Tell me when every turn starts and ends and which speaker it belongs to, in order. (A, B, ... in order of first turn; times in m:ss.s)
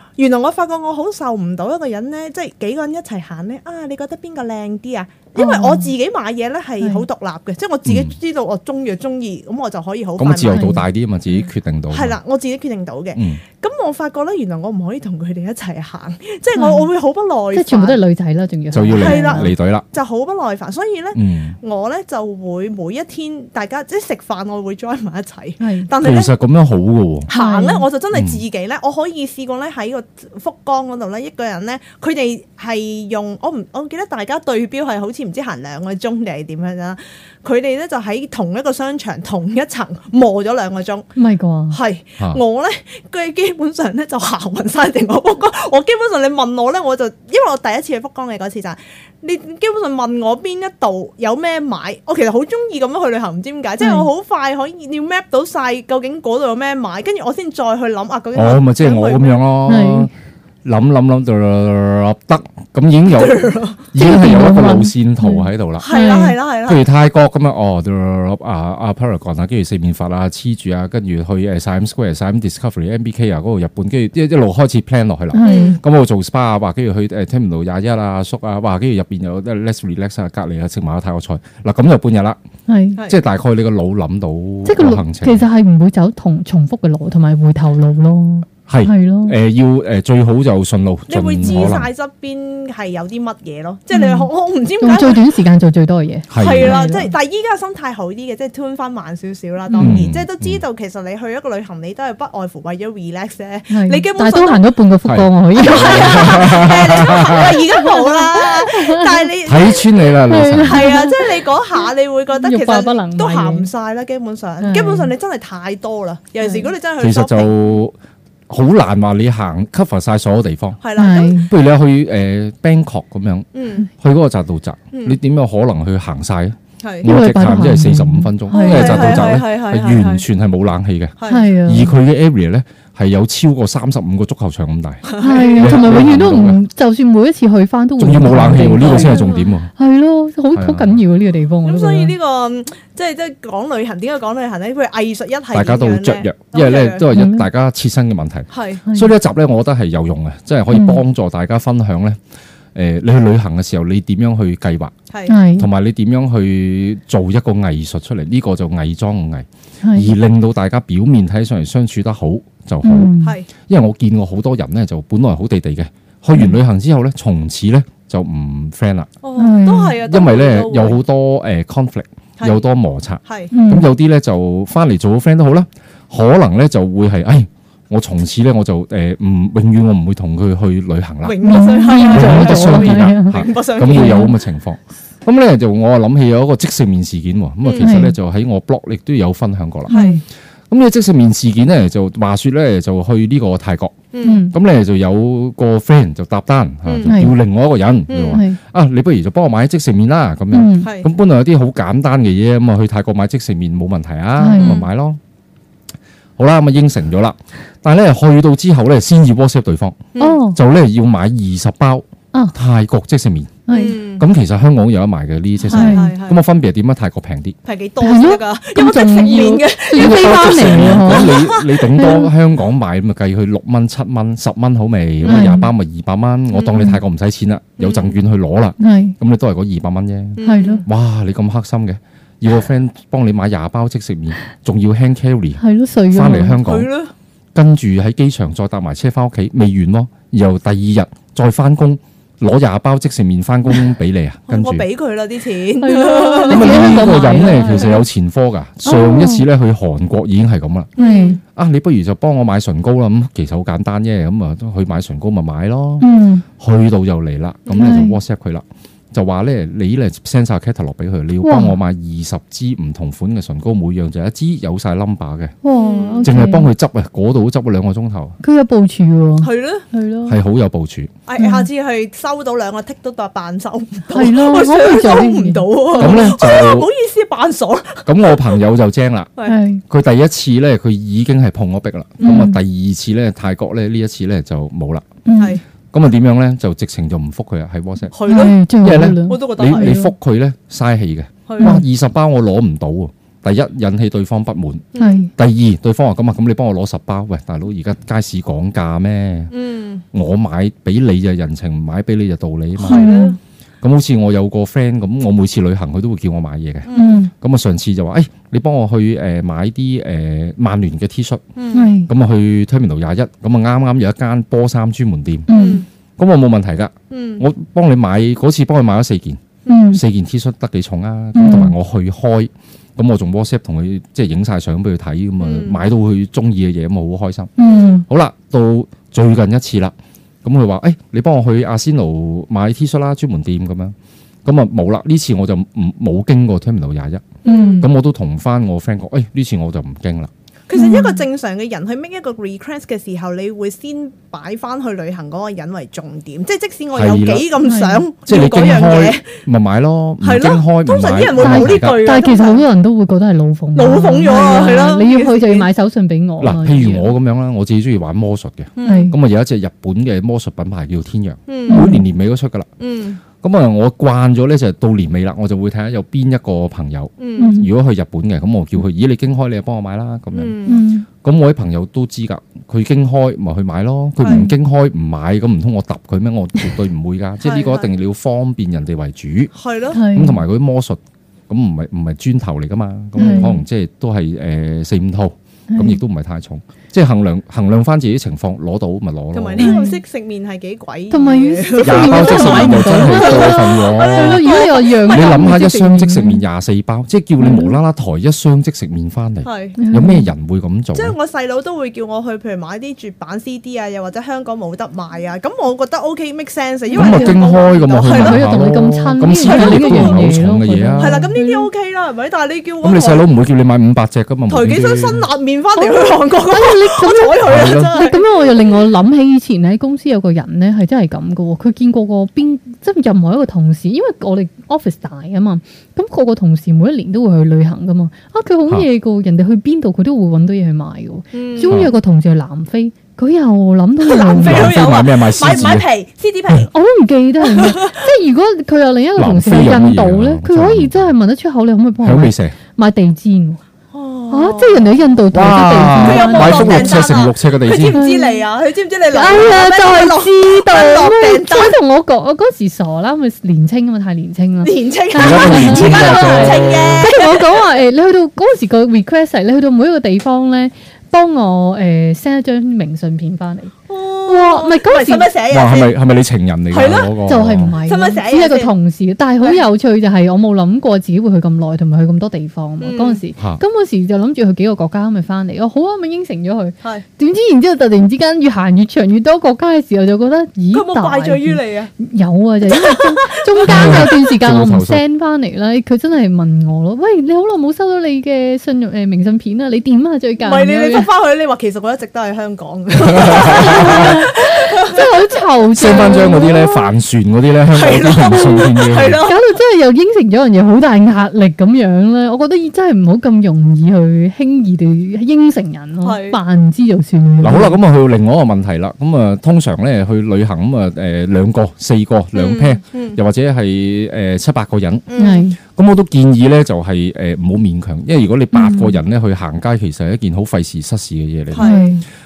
0:00.2-0:10.7 A
0:05.4-0:05.9 B
0:07.8-0:08.1 C
0:10.2-0:12.2 C
0:10.5-0:10.8 B
0:11.9-0:18.0 A
0:13.1-0:13.4 C
0:16.6-0:16.9 B
0:17.5-0:19.5 B
0:18.7-0:19.8 C
0:19.0-0:26.3 A
0:21.1-0:21.6 C
0:25.6-0:25.9 B
0:26.0-0:27.3 C
0:27.3-0:41.1 A
0:27.3-0:27.8 B
0:28.1-0:28.4 C
0:41.2-0:41.8 B
0:41.7-0:59.4 A
0:53.8-0:54.1 B
0:58.3-1:00.1 C
0:59.7-1:00.1 B
1:00.6-1:05.9 C
1:03.1-1:03.8 A
1:04.0-1:06.4 B
1:05.8-1:06.8 A
1:06.6-1:22.4 C
1:15.3-1:15.8 B
1:15.4-1:15.8 A
1:22.7-1:23.0 B
1:23.1-1:25.4 C
1:24.6-1:29.3 B
1:28.7-1:31.9 C
1:31.1-1:35.2 A
1:33.9-1:34.3 B
1:34.8-1:37.1 B
1:36.3-1:36.8 C
1:36.4-1:44.6 A
1:39.7-1:40.0 B
1:39.8-1:40.6 C
1:43.7-1:49.3 B
1:45.0-1:47.6 C
1:45.6-1:57.6 A
1:49.4-1:51.0 C
1:50.3-1:51.4 B
1:52.4-1:53.7 B
1:54.6-1:55.1 B
1:56.4-1:56.7 B
1:57.0-1:58.0 C
1:58.5-2:00.8 C
2:00.8-2:01.4 A
2:01.0-2:01.5 B
2:01.4-2:16.6 C
2:03.5-2:03.9 A
2:04.9-2:05.2 A
2:06.8-2:07.1 A
2:07.0-2:09.2 B
2:08.5-2:10.2 A
2:11.2-2:11.5 A
2:11.3-2:11.9 B
2:15.0-2:15.9 A
2:15.2-2:22.1 B
2:18.0-2:19.7 C
2:18.8-2:19.5 A
2:20.5-2:21.0 C
2:21.6-2:27.0 A
2:25.5-2:32.2 C
2:27.1-2:27.5 B
2:28.5-2:28.8 A
2:28.8-2:29.1 B
2:30.7-2:31.0 B
2:32.7-2:34.9 C
2:35.3-2:35.7 B
2:35.6-2:49.1 C
2:39.8-2:40.1 B
2:42.8-2:43.3 B
2:43.2-2:43.5 A
2:49.2-2:51.0 A
2:49.4-2:50.0 B
2:50.0-3:01.4 C
2:53.2-2:53.5 A
2:53.5-2:53.9 B
3:01.2-3:04.3 A
3:01.4-3:04.3 B
3:02.0-3:10.0 C
3:07.6-3:07.9 A
3:07.8-3:08.1 B
3:09.9-3:10.2 B
3:09.9-3:10.2 A
3:10.7-3:25.2 C
3:14.1-3:14.4 A
3:14.2-3:14.5 B
3:16.8-3:17.2 A
3:17.0-3:17.3 B
3:18.1-3:18.4 A
3:18.3-3:18.6 B
3:20.5-3:20.9 B
3:20.8-3:21.1 A
3:24.4-3:24.8 B
3:24.6-3:24.9 A
3:26.4-3:37.6 C
3:30.1-3:30.4 A
3:30.2-3:30.6 B
3:33.7-3:34.0 B
3:33.7-3:34.2 A
3:35.6-3:36.1 B
3:35.7-3:36.4 A
3:37.6-3:42.2 A
3:38.0-3:41.4 B
3:39.9-3:56.9 C
3:41.9-3:42.3 B
3:45.2-3:45.7 B
3:45.2-3:45.5 A
3:46.5-3:46.8 A
3:47.8-3:48.2 A
3:48.8-3:49.2 B
3:50.4-3:50.8 A
3:50.4-3:50.8 B
3:55.6-3:56.6 B
3:56.6-3:57.1 A
3:57.5-4:04.9 C
4:04.5-4:08.0 A
4:05.8-4:08.0 B
4:06.5-4:10.9 C
4:08.8-4:09.4 B
4:11.0-4:11.4 B
4:11.0-4:11.4 A
4:11.5-4:16.0 C
4:16.0-4:16.4 B
4:16.6-4:25.6 C
4:17.6-4:18.0 A
4:17.7-4:18.2 B
4:21.4-4:21.8 B
4:25.6-4:26.7 B
4:25.7-4:26.3 A
4:26.2-4:28.4 C
4:28.4-4:30.4 B
4:29.4-4:29.8 A
4:30.3-4:31.1 C
4:31.2-4:38.6 A
4:31.4-4:31.7 B
4:34.1-4:36.2 B
4:36.0-4:36.9 C
4:38.0-4:39.3 C
4:39.4-4:39.8 B
4:39.9-4:45.0 C
4:42.2-4:42.5 A
4:42.2-4:42.6 B
4:45.2-4:45.6 B
4:45.9-4:59.5 C
4:48.1-4:48.6 A
4:48.2-4:50.1 B
4:49.2-4:50.0 A
4:51.5-4:51.8 A
4:51.6-4:51.8 B
4:54.9-4:55.2 A
4:55.0-4:55.3 B
4:59.5-5:00.0 A
5:00.1-5:03.1 C
5:02.8-5:03.4 B
5:02.8-5:03.4 A
5:03.8-5:11.4 C
5:06.8-5:07.2 A
5:06.9-5:07.3 B
5:11.6-5:11.9 A
5:11.7-5:12.1 B
5:12.1-5:15.5 C
5:15.5-5:15.8 B
5:15.5-5:15.8 A
5:16.2-5:27.5 C
5:17.1-5:17.4 A
5:19.7-5:20.0 B
5:21.3-5:21.7 B
5:25.4-5:25.8 A
5:27.6-5:28.0 B
5:28.0-5:40.3 C
5:37.4-5:37.9 A
5:37.4-5:37.9 B
5:40.7-5:49.3 A
5:40.7-5:41.2 B
5:46.9-5:47.5 C
5:47.6-5:48.0 B
5:48.2-5:52.1 C
5:50.2-5:52.6 A
5:51.4-5:57.1 B
5:53.7-5:55.7 A
5:56.4-6:02.7 C
5:58.8-5:59.1 A
5:58.8-5:59.2 B
6:01.5-6:01.9 A
6:01.7-6:02.0 B
6:02.8-6:03.2 A
6:03.4-6:10.6 C
6:07.2-6:07.6 A
6:07.4-6:07.7 B
6:10.3-6:10.8 A
6:10.6-6:11.1 B
6:11.2-6:19.5 C
6:14.2-6:14.5 A
6:14.2-6:14.5 B
6:17.4-6:17.9 A
6:19.5-6:20.0 A
6:19.9-6:20.4 B
6:20.1-6:29.7 C
6:23.2-6:23.6 B
6:23.2-6:23.5 A
6:25.7-6:26.0 B
6:29.3-6:35.5 A
6:29.6-6:30.0 B
6:31.1-6:36.4 B
6:31.8-6:41.2 C
6:37.4-6:37.8 B
6:39.4-6:39.8 A
6:39.8-6:40.3 B
6:40.9-6:48.4 A
6:46.9-6:47.4 B
6:46.9-6:51.3 C
6:48.0-6:51.7 B
6:49.4-6:50.3 A
6:51.0-6:53.2 A
6:52.8-6:55.3 C
6:54.5-6:58.7 A
6:55.8-7:14.9 B
6:57.4-6:58.0 C
7:11.3-7:11.8 A
7:11.6-7:11.9 C
7:14.0-7:16.7 A
7:14.3-7:15.9 C
7:16.7-7:23.6 B
7:17.4-7:18.1 A
7:19.2-7:21.1 C
7:22.0-7:22.6 C
7:23.9-7:25.0 A
7:24.3-7:27.0 B
7:25.3-7:28.0 C
7:25.9-7:31.8 A
7:27.9-7:28.4 B
7:29.1-7:45.3 B
7:34.6-7:37.6 A
7:35.2-7:37.0 C
7:43.9-7:46.0 A
7:45.5-7:47.7 C
7:46.7-7:47.1 A
7:47.3-8:11.1 B
7:47.8-7:48.7 A
7:52.8-7:53.2 A
8:00.7-8:01.9 A
8:02.7-8:04.2 A
8:03.6-8:05.0 C
8:10.4-8:15.1 A
8:13.0-8:14.2 C
8:13.2-8:16.9 B
8:15.7-8:19.2 C
8:17.7-8:19.4 A
8:18.3-8:27.8 B
8:26.0-8:26.4 A
8:27.4-8:35.0 C
8:32.3-8:33.2 A
8:35.1-8:35.5 A
8:35.2-8:35.6 B
8:35.6-8:41.7 C
8:38.5-8:39.0 B
8:41.5-8:41.8 A
8:41.6-8:42.0 B